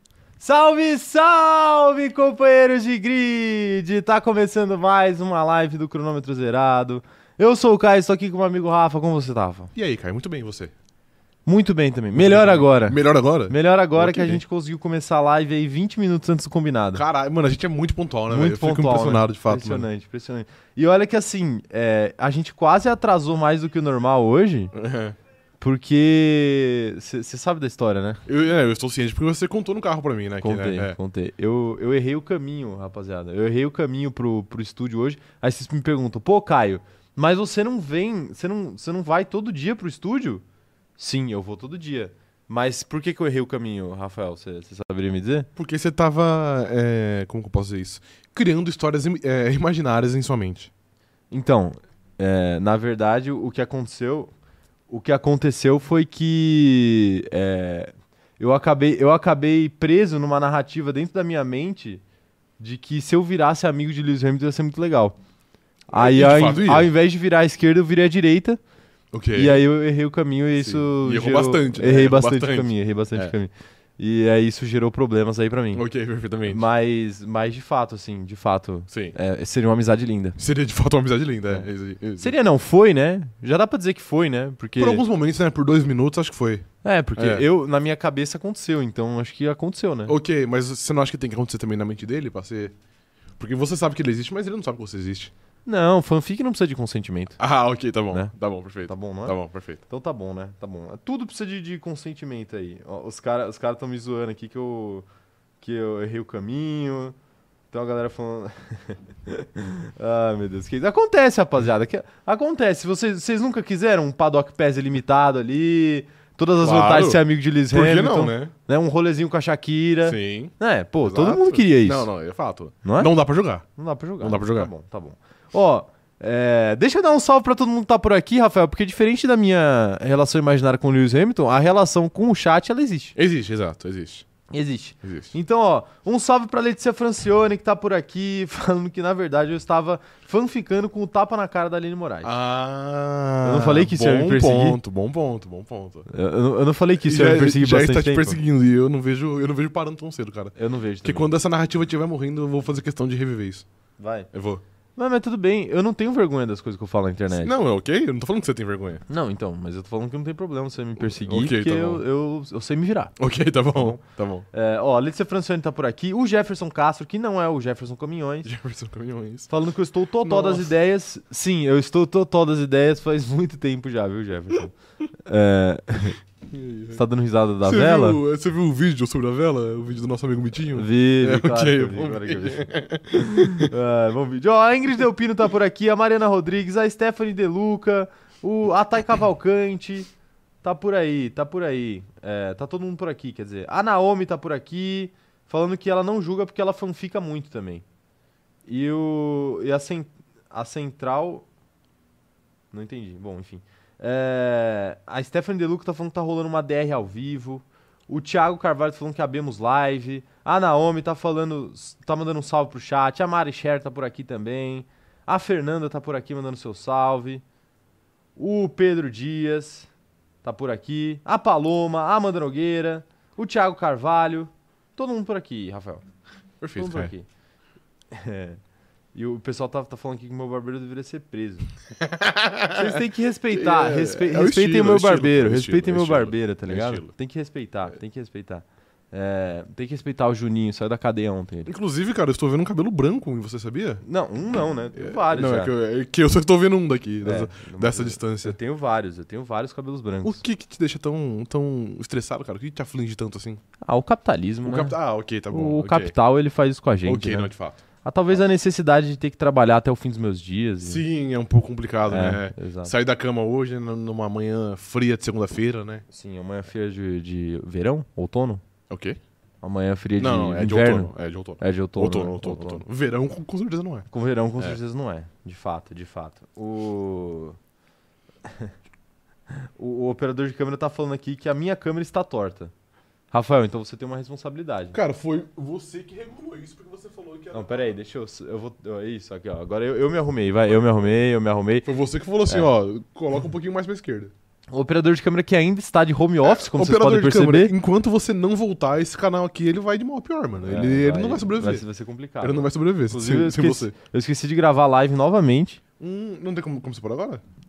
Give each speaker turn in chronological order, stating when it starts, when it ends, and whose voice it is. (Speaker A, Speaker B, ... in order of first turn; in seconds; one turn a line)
Speaker A: 0.4-9.7
Speaker B: 9.8-10.7
Speaker A: 11.5-17.0
Speaker B: 12.1-14.4
Speaker B: 16.9-19.9
Speaker A: 18.3-24.7
Speaker B: 24.7-25.1
Speaker A: 25.6-28.2
Speaker B: 28.2-31.0
Speaker A: 30.4-40.4
Speaker A: 41.0-45.5
Speaker B: 45.6-50.7
Speaker A: 51.3-54.3
Speaker A: 54.9-62.0
Speaker A: 62.6-65.2
Speaker B: 65.9-66.9
Speaker A: 65.9-68.6
Speaker B: 69.1-69.6
Speaker A: 69.3-75.8
Speaker B: 70.5-73.3
Speaker B: 75.7-76.6
Speaker A: 76.5-80.4
Speaker B: 78.9-79.1
Speaker B: 80.4-82.3
Speaker A: 82.2-85.0
Speaker B: 84.8-87.5
Speaker A: 86.8-90.2
Speaker B: 90.1-92.7
Speaker B: 93.4-95.3
Speaker A: 95.6-97.4
Speaker B: 97.4-99.8
Speaker A: 98.9-105.0
Speaker A: 105.6-107.1
Speaker A: 107.7-122.1
Speaker B: 116.6-118.5
Speaker B: 120.0-123.7
Speaker A: 122.8-123.1
Speaker A: 123.8-133.2
Speaker B: 124.2-124.7
Speaker B: 133.2-134.2
Speaker A: 134.5-142.3
Speaker B: 135.0-135.3
Speaker B: 142.2-146.1
Speaker A: 143.4-144.8
Speaker A: 146.1-148.4
Speaker B: 147.0-153.7
Speaker A: 150.6-151.3
Speaker A: 154.0-154.3
Speaker B: 154.3-154.6
Speaker A: 154.9-157.5
Speaker B: 157.3-159.0
Speaker A: 159.1-163.2
Speaker B: 161.0-162.0
Speaker B: 163.2-164.4
Speaker A: 164.5-168.5
Speaker B: 168.4-169.5
Speaker A: 169.5-176.2
Speaker B: 170.2-170.7
Speaker B: 176.5-177.0
Speaker A: 176.9-178.2
Speaker B: 177.6-183.7
Speaker A: 180.7-190.1
Speaker A: 190.6-197.8
Speaker A: 198.7-201.4
Speaker A: 202.7-217.4
Speaker A: 218.3-219.9
Speaker A: 220.4-226.0
Speaker B: 226.6-227.1
Speaker A: 226.8-227.3
Speaker A: 228.1-228.6
Speaker A: 229.1-231.7
Speaker B: 232.0-237.1
Speaker A: 232.7-241.7
Speaker B: 241.7-244.0
Speaker A: 244.0-245.7
Speaker B: 244.9-248.6
Speaker A: 247.2-250.4
Speaker B: 250.2-253.6
Speaker A: 253.8-255.0
Speaker B: 254.7-256.1
Speaker A: 255.5-257.5
Speaker B: 257.1-257.8
Speaker A: 258.0-261.0
Speaker B: 260.8-266.0
Speaker A: 262.1-262.9
Speaker A: 266.1-268.6
Speaker B: 268.9-269.2
Speaker A: 269.6-272.8
Speaker B: 270.2-274.1
Speaker A: 274.1-277.6
Speaker A: 278.4-278.7
Speaker A: 279.5-282.7
Speaker A: 283.3-285.0
Speaker B: 284.9-287.9
Speaker A: 287.5-291.9
Speaker B: 291.9-294.3
Speaker A: 294.7-297.8
Speaker B: 296.4-301.9
Speaker A: 300.6-305.8
Speaker B: 302.4-303.9
Speaker B: 306.0-307.4